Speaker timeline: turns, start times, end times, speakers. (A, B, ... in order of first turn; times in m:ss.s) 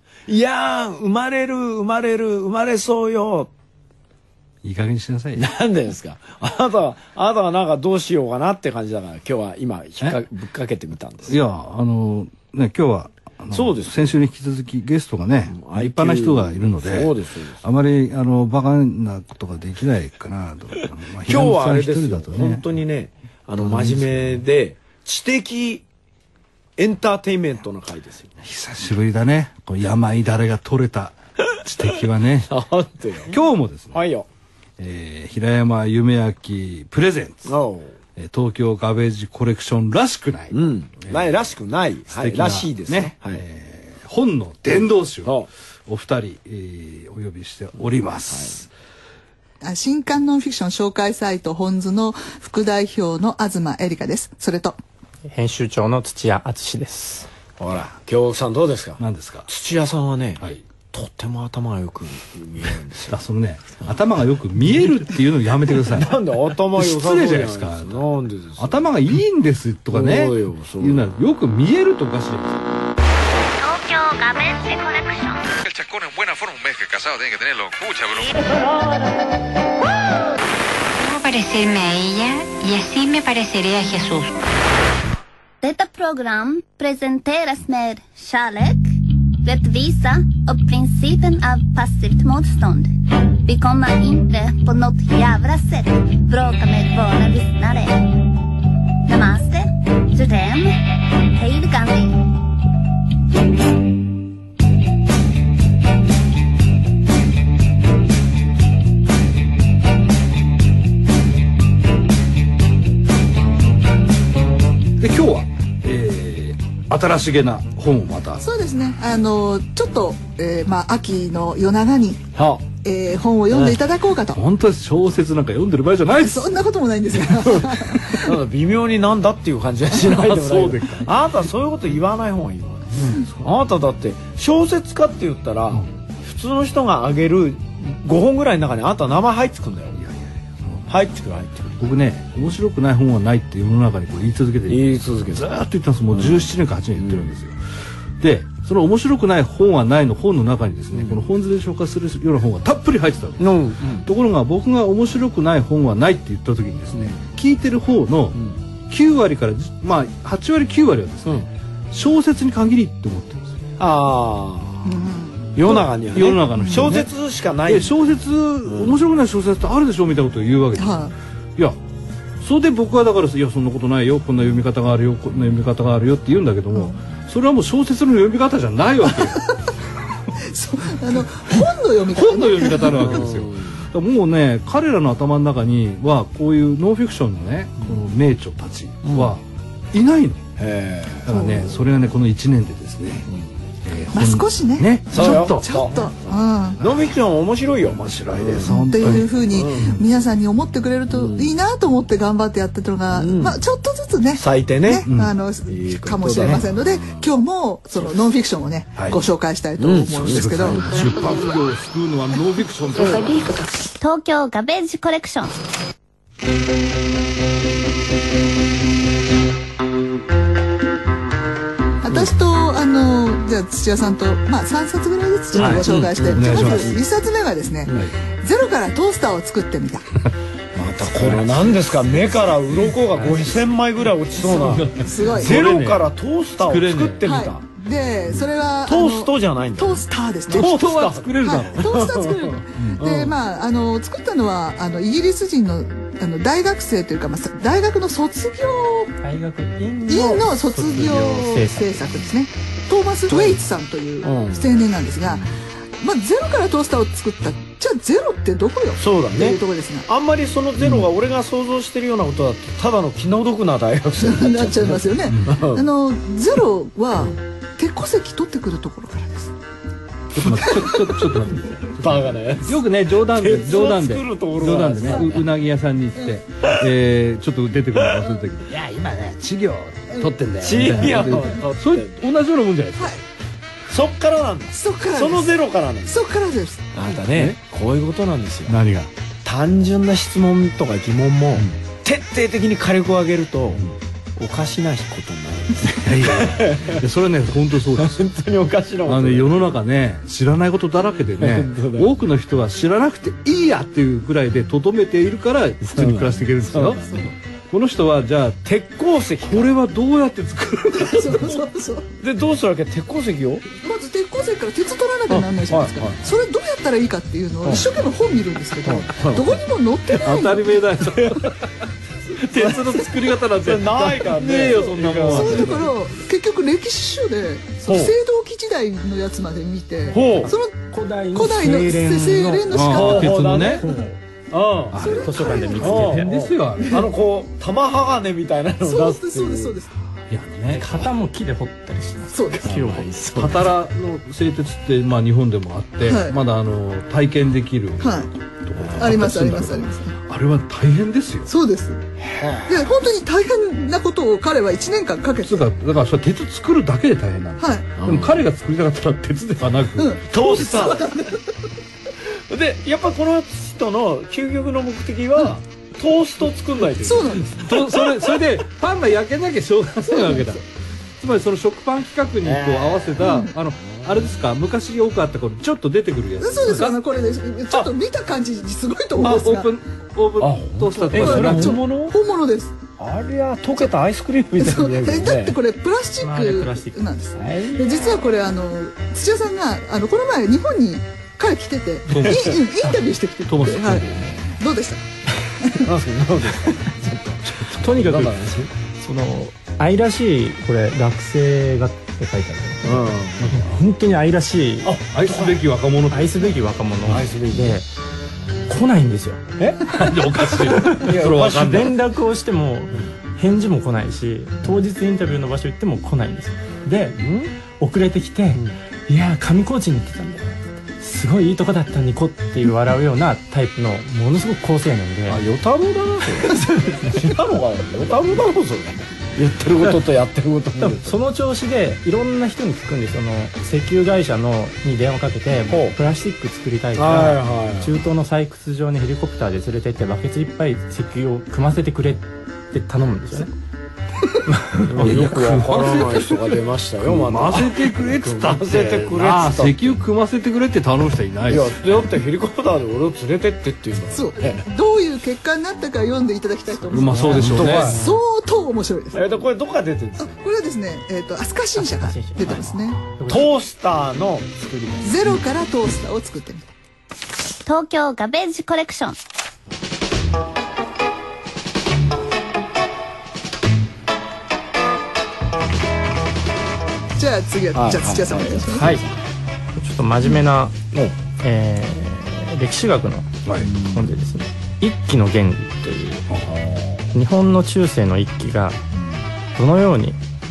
0:00.3-0:03.5 A
0:04.6-0:05.5 B
0:05.4-0:11.4 A
0:11.3-0:22.7 B
0:13.5-0:14.1 A
0:15.5-0:17.6 A
0:21.2-0:25.8 A
0:23.6-0:24.4 B
0:26.8-0:28.4 A
0:28.4-0:32.5 B
0:32.5-0:33.4 A
0:33.3-0:34.0 B
0:33.9-0:34.3 A
0:34.8-0:37.5 B
0:37.5-0:38.0 A
0:38.2-0:41.3 B
0:40.5-0:43.4 A
0:42.1-0:45.4 B
0:45.9-0:48.7 B
0:48.3-0:48.6 A
0:49.6-0:54.8 C
0:55.3-0:57.3 D
0:57.6-1:03.2 A
0:59.0-0:59.5 B
1:03.1-1:06.2 B
1:05.7-1:08.9 A
1:06.7-1:08.1 B
1:08.6-1:12.6 B
1:09.9-1:11.1 A
1:13.6-1:15.5 E
1:15.6-1:18.5 F
1:18.7-1:19.3 E
1:21.0-1:24.4 G
1:25.6-1:38.1 E
1:39.0-1:40.8 E
1:41.3-1:42.3 E
1:55.0-1:58.4 B
1:58.4-2:02.3 C
2:02.4-2:02.7 A
2:02.8-2:04.4 C
2:03.5-2:03.8 A
2:04.3-2:06.5 B
2:06.1-2:08.3 C
2:08.2-2:20.0 A
2:10.1-2:11.2 B
2:13.0-2:13.5 B
2:20.0-2:20.9 B
2:20.9-2:22.0 A
2:21.8-2:27.6 B
2:24.7-2:25.5 A
2:26.1-2:27.3 A
2:28.2-2:38.4 B
2:31.0-2:31.2 A
2:33.4-2:34.1 A
2:36.9-2:37.2 A
2:38.9-2:43.6 B
2:43.8-2:45.0 A
2:44.8-2:45.8 C
2:45.6-2:48.0 A
2:45.6-2:47.1 B
2:46.5-2:47.0 C
2:47.7-2:51.0 B
2:48.6-2:49.0 A
2:50.8-2:51.1 C
2:52.4-2:59.5 B
3:00.4-3:03.2 C
3:02.1-3:09.4 B
3:03.0-3:03.8 A
3:09.0-3:09.3 A
3:09.9-3:10.4 B
3:10.6-3:11.5 A
3:11.2-3:13.3 B
3:11.3-3:11.8 C
3:13.8-3:15.9 B
3:14.1-3:16.8 C
3:15.1-3:20.0 A
3:17.9-3:20.0 B
3:18.7-3:31.0 C
3:21.1-3:21.5 A
3:23.1-3:23.6 A
3:24.4-3:25.1 A
3:25.0-3:25.3 B
3:25.7-3:27.3 A
3:29.0-3:29.2 B
3:29.8-3:31.0 A
3:30.2-3:33.3 B
3:34.0-3:35.6 E
3:42.0-3:50.1 C
3:45.5-3:46.9 B
3:45.5-3:47.0 A
3:50.8-3:57.6 A
3:51.0-3:53.7 B
3:54.4-3:57.2 B
3:55.0-3:55.6 C
3:57.2-4:00.8 C
3:58.8-4:00.0 A
4:00.5-4:01.9 B
4:00.5-4:03.4 A
4:01.4-4:09.2 C
4:02.8-4:03.0 B
4:09.2-4:12.1 D
4:10.1-4:20.1 C
4:14.2-4:14.7 A
4:19.0-4:25.9 A
4:20.8-4:21.1 B
4:24.2-4:29.5 C
4:25.3-4:25.5 B
4:30.3-4:43.2 B
4:30.4-4:31.4 C
4:32.0-4:35.5 A
4:40.6-4:42.2 A
4:41.0-4:41.4 C
4:43.9-4:46.2 A
4:44.7-4:47.1 C
4:46.9-4:48.8 A
4:47.3-4:47.6 B
4:48.7-4:49.1 B
4:49.4-4:57.0 A
4:55.9-4:58.2 B
4:57.9-4:59.6 A
4:59.0-5:07.0 B
5:01.4-5:02.1 A
5:05.8-5:07.3 A
5:07.7-5:08.6 B
5:08.6-5:09.8 A
5:09.4-5:11.6 B
5:11.0-5:12.1 C
5:12.2-5:13.6 A
5:13.8-5:20.8 C
5:15.3-5:16.2 A
5:18.8-5:19.6 A
5:20.2-5:21.6 B
5:21.1-5:21.5 A
5:22.4-5:25.9 A
5:22.4-5:25.9 B
5:24.8-5:34.0 C
5:27.9-5:28.2 A
5:30.1-5:30.5 A
5:30.9-5:33.0 D
5:32.7-5:33.8 B
5:32.9-5:33.9 A
5:33.8-5:34.2 D
5:34.5-5:35.0 A
5:34.9-5:37.1 B
5:35.0-5:36.2 C
5:35.0-5:36.3 D
5:35.8-5:39.8 A
5:36.8-5:37.1 C
5:38.8-5:39.9 C
5:40.3-5:40.9 B
5:40.7-5:43.5 D
5:42.3-5:42.7 C
5:42.6-5:43.7 A
5:43.4-5:51.5 B
5:46.0-5:46.4 C
5:48.0-5:48.3 C
5:48.8-5:49.3 A
5:49.0-5:50.1 C
5:51.5-5:52.0 C
5:52.2-5:52.8 A
5:52.7-5:55.6 C
5:55.4-6:00.7 B
5:57.6-5:57.9 C
5:58.0-5:58.4 A
6:00.0-6:01.3 C
6:00.3-6:01.3 A
6:02.5-6:08.4 A
6:07.0-6:07.6 C
6:07.6-6:10.7 B
6:10.0-6:10.6 C
6:11.2-6:17.0 B
6:12.4-6:13.9 A
6:13.2-6:13.5 C
6:16.4-6:19.7 C
6:19.2-6:21.8 B
6:20.4-6:22.2 A
6:21.1-6:22.8 C
6:23.0-6:25.6 A
6:24.6-6:35.0 C
6:26.2-6:27.0 D
6:27.4-6:27.9 A
6:32.1-6:32.6 B
6:33.5-6:34.5 B
6:35.8-6:38.7 A
6:37.8-6:38.4 D
6:39.0-6:45.0 D
6:42.8-6:43.6 A
6:43.4-6:43.7 B
6:44.8-6:45.6 A
6:45.1-6:46.6 B
6:46.1-6:47.9 D
6:47.1-6:47.8 A
6:48.7-6:49.4 D
6:49.6-6:51.9 A
6:49.9-6:52.0 B
6:50.9-7:00.5 D
6:57.2-6:57.5 A
7:01.0-7:05.4 D
7:05.3-7:11.2 A
7:06.9-7:07.2 D
7:10.8-7:23.5 D
7:15.7-7:16.0 A
7:17.0-7:18.0 A
7:24.8-7:25.1 D
7:24.9-7:30.0 A
7:25.0-7:26.5 B
7:27.0-7:31.8 B
7:31.5-7:34.6 A
7:34.1-7:39.3 C
7:36.9-7:38.0 B
7:36.9-7:38.1 A
7:39.1-7:40.3 A
7:40.2-7:43.0 C
7:41.8-7:43.5 D
7:43.3-7:45.4 A
7:45.0-7:46.7 C
7:47.7-7:49.2 E
7:57.2-7:59.0 C
7:57.8-7:59.2 A
7:58.8-7:59.0 D
7:59.8-8:00.8 D
8:01.4-8:06.3 D
8:03.6-8:04.1 A
8:06.5-8:07.0 A
8:07.1-8:08.8 D
8:09.0-8:09.2 A
8:09.6-8:10.2 D